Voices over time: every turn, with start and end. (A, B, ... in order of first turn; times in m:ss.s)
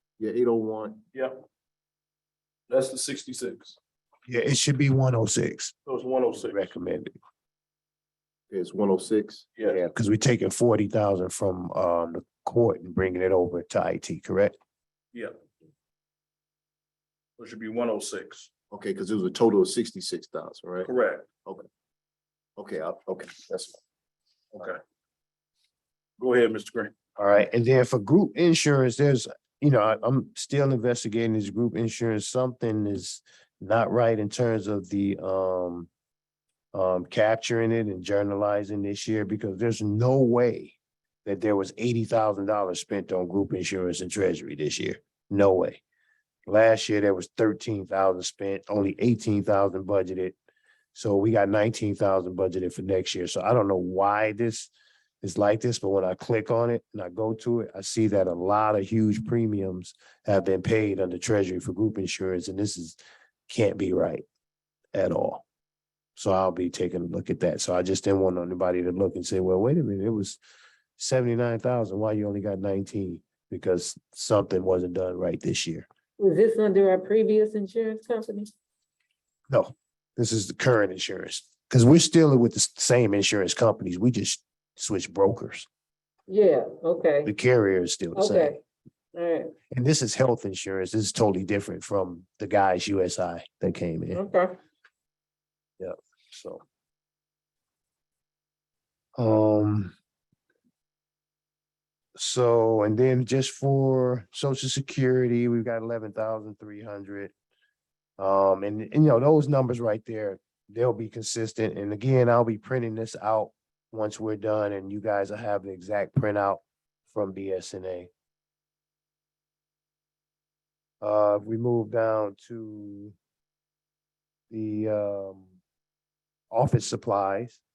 0:00.2-0:01.0 A
0:01.1-0:01.4 B
0:02.7-0:03.8 B
0:04.2-0:05.7 C
0:05.8-0:06.7 B
0:06.4-0:07.2 C
0:08.5-0:09.4 A
0:09.5-0:09.8 B
0:09.6-0:14.5 C
0:17.4-0:18.5 B
0:18.7-0:20.9 A
0:20.8-0:21.3 B
0:22.6-0:23.8 A
0:24.5-0:24.8 B
0:26.2-0:26.9 B
0:27.2-0:35.9 C
0:36.7-0:45.8 C
0:46.5-0:50.4 C
0:50.9-1:03.0 C
1:03.5-1:04.2 C
1:04.9-1:05.4 C
1:06.2-1:10.4 C
1:11.0-1:15.8 C
1:16.2-1:18.5 D
1:19.5-1:25.6 C
1:26.3-1:27.3 D
1:27.2-1:28.5 C
1:28.2-1:28.6 D
1:29.1-1:29.5 D
1:29.7-1:34.2 C
1:34.1-1:34.5 D
1:35.8-1:36.6 C
1:39.2-1:39.9 C
1:42.2-1:47.3 C
1:48.2-1:58.1 C
2:01.0-2:03.1 C
2:04.5-2:05.5 C
2:06.5-2:07.6 C